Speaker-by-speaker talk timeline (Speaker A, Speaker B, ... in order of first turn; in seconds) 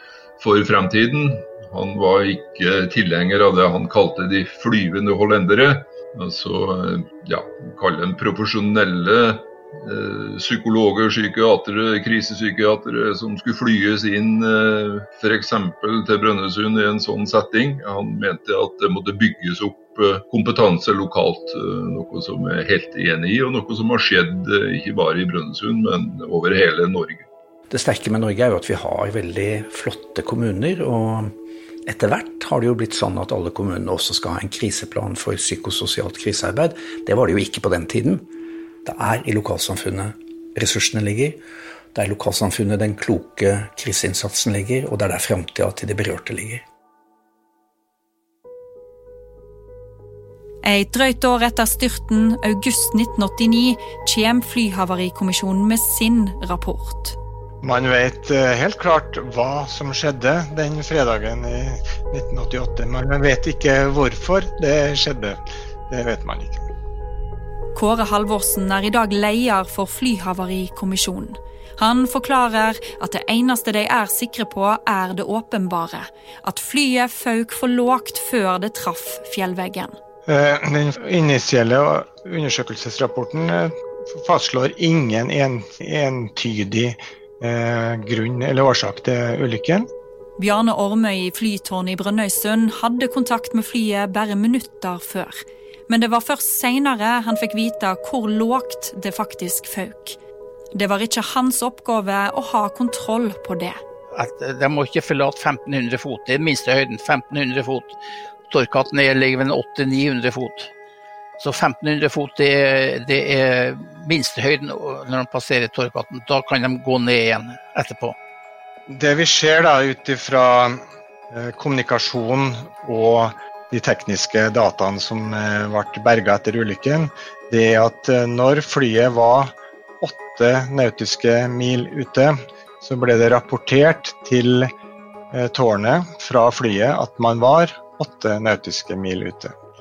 Speaker A: 0.4-27.3
Speaker B: 27.7-31.3, 31.9-38.3, 38.8-41.4, 41.9-46.6
Speaker C: 50.6-57.2, 67.7-80.0, 90.4-100.2, 100.7-103.8
Speaker D: 57.6-66.7, 80.2-89.9, 118.9-134.7, 135.3-139.5
Speaker E: 104.1-108.0, 108.5-110.7, 111.4-118.2